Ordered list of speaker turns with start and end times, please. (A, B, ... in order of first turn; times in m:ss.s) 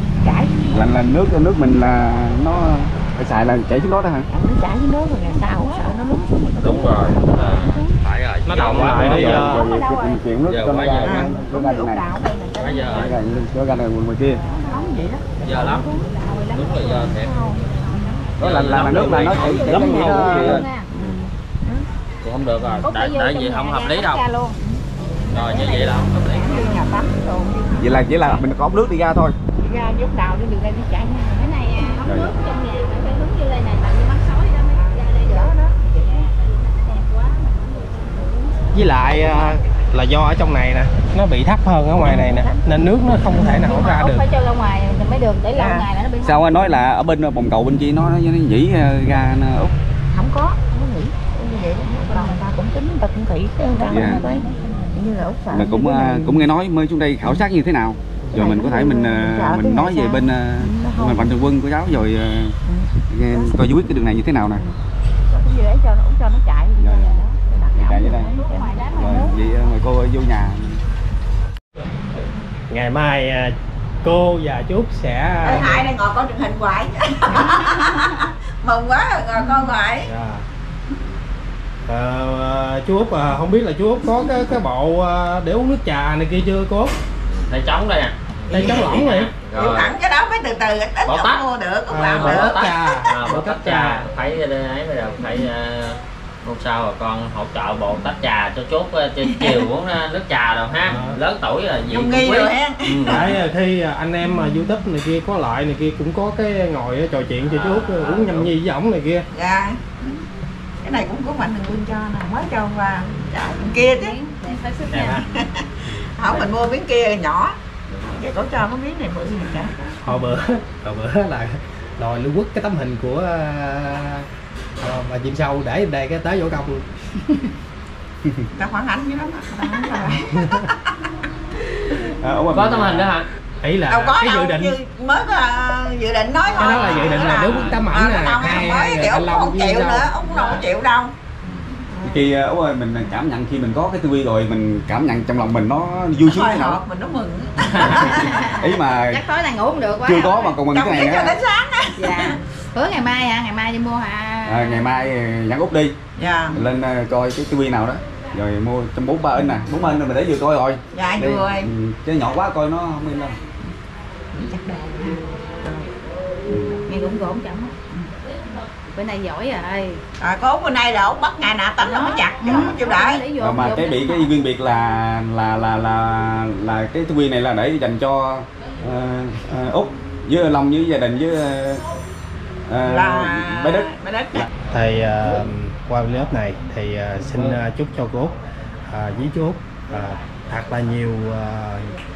0:00.2-0:00.8 A
0:00.7-0:04.3 B
0:04.3-0:07.9 A
0:05.3-0:06.0 C
0:06.6-0:09.5 D
0:08.4-0:09.6 E
0:08.8-0:12.0 B
0:09.4-0:10.2 C
0:10.5-0:11.3 D
0:11.0-0:13.2 A
0:12.6-0:13.1 D
0:12.9-0:14.4 B
0:14.3-0:16.1 A
0:15.4-0:15.8 D
0:16.0-0:18.2 C
0:16.5-0:17.3 D
0:16.8-0:18.2 A
0:18.4-0:20.6 B
0:18.4-0:20.7 D
0:18.8-0:20.9 C
0:20.9-0:21.8 A
0:22.2-0:24.2 D
0:22.8-0:24.6 C
0:24.6-0:28.4 A
0:25.3-0:26.7 D
0:26.3-0:26.6 C
0:27.8-0:29.3 B
0:29.6-0:31.8 A
0:31.4-0:37.9 C
0:32.0-0:32.4 B
0:34.7-0:36.3 A
0:37.9-0:38.6 A
0:38.7-0:44.2 E
0:42.0-0:42.6 A
0:43.6-0:46.7 C
0:45.5-0:45.8 A
0:46.2-0:49.7 B
0:50.1-0:56.4 A
0:53.8-0:54.4 C
0:53.9-0:54.2 B
0:55.5-1:02.6 B
0:58.3-1:01.3 A
1:02.6-1:03.5 A
1:03.1-1:04.6 B
1:05.3-1:09.3 A
1:06.8-1:07.2 B
1:07.7-1:08.3 B
1:08.0-1:09.4 C
1:08.9-1:10.8 B
1:12.7-1:15.9 E
1:15.4-1:20.1 A
1:20.0-1:20.4 E
1:21.8-1:26.9 E
1:27.3-1:29.9 D
1:28.5-1:29.3 E
1:28.6-1:33.0 A
1:31.0-1:31.4 D
1:31.9-1:34.0 E
1:32.1-1:43.3 D
1:40.8-1:41.2 E
1:41.9-1:43.3 A
1:43.0-1:49.3 E
1:47.4-1:48.5 D
1:49.3-1:50.2 A
1:50.8-1:57.5 A
1:53.7-1:55.2 C
1:54.9-1:55.2 E
1:57.9-1:58.2 D
1:58.1-2:00.0 A
2:00.0-2:04.3 E
2:04.8-2:06.8 E
2:08.6-2:10.7 A
2:10.2-2:10.6 E
2:12.2-2:12.9 B
2:12.2-2:14.8 E
2:12.5-2:13.3 D
2:13.9-2:21.1 A
2:16.6-2:20.1 E
2:16.8-2:17.8 D
2:20.3-2:20.6 D
2:21.8-2:22.2 A
2:22.0-2:26.8 B
2:26.2-2:28.4 A
2:27.7-2:28.1 D
2:27.8-2:30.5 C
2:28.0-2:29.2 B
2:30.0-2:31.4 B
2:30.7-2:32.3 A
2:31.9-2:34.8 C
2:34.4-2:35.9 B
2:36.2-2:36.6 A
2:36.5-2:43.4 B
2:39.4-2:39.7 A
2:40.9-2:41.7 A
2:44.3-2:45.9 A
2:46.5-2:46.8 B
2:46.9-2:47.7 C
2:48.9-2:50.0 C
2:50.2-2:53.2 A
2:51.8-2:54.3 C
2:53.4-3:01.8 B
3:02.7-3:03.9 B
3:02.8-3:04.5 A
3:04.6-3:08.3 E
3:08.8-3:12.0 E
3:09.9-3:11.0 D